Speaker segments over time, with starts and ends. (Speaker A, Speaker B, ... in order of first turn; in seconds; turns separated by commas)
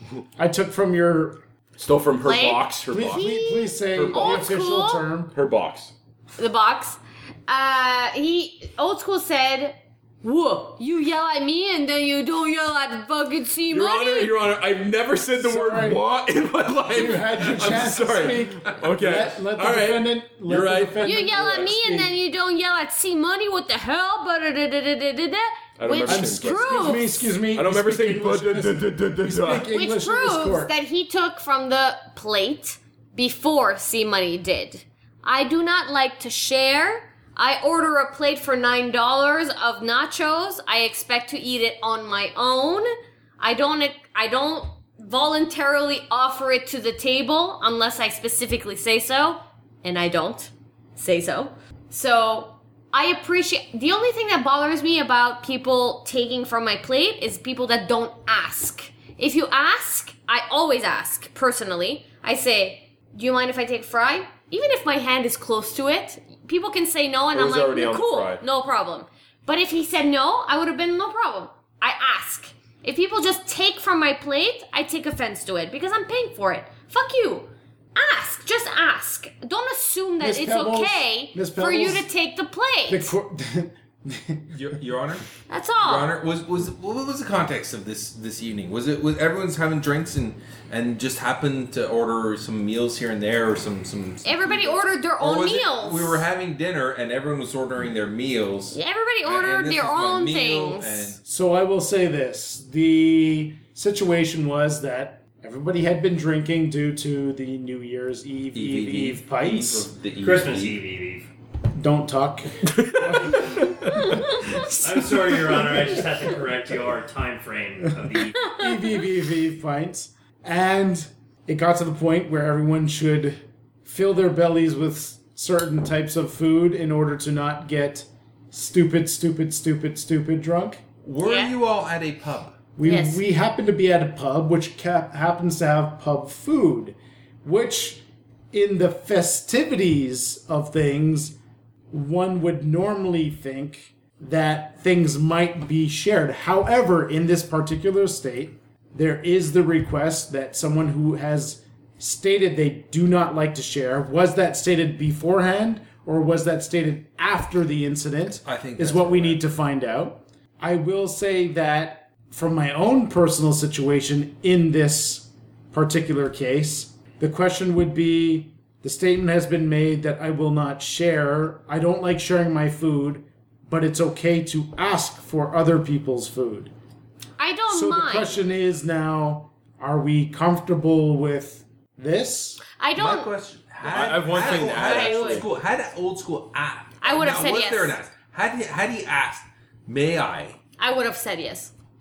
Speaker A: 0.4-1.4, Speaker B: 1.8-3.4, Speaker C: 2.2-5.0, Speaker A: 2.9-5.3, Speaker B: 3.9-4.5, Speaker B: 5.3-5.9, Speaker C: 6.4-14.3, Speaker B: 13.7-21.1, Speaker A: 15.4-16.0, Speaker A: 16.9-22.1, Speaker C: 21.0-27.3, Speaker B: 25.8-29.7, Speaker A: 26.1-30.7, Speaker C: 29.7-42.9, Speaker C: 43.4-83.1, Speaker B: 67.3-68.4, Speaker A: 80.2-82.1, Speaker A: 82.9-84.5, Speaker D: 84.5-85.2, Speaker C: 85.5-86.1, Speaker D: 85.8-101.2, Speaker C: 94.2-96.3, Speaker C: 98.7-101.2, Speaker A: 101.2-109.9, Speaker D: 108.5-110.8, Speaker E: 110.2-111.3, Speaker A: 111.8-116.0, Speaker B: 112.7-113.9, Speaker E: 114.7-118.6, Speaker A: 118.4-130.8, Speaker D: 131.0-132.6, Speaker C: 131.2-131.5, Speaker A: 132.8-141.4, Speaker C: 132.8-133.2, Speaker A: 141.9-176.7, Speaker D: 158.4-159.4, Speaker C: 177.4-178.3, Speaker A: 177.7-182.6, Speaker C: 182.8-183.3, Speaker D: 182.9-190.6, Speaker B: 183.8-185.5, Speaker C: 184.3-185.5, Speaker C: 187.0-188.0, Speaker C: 190.8-191.7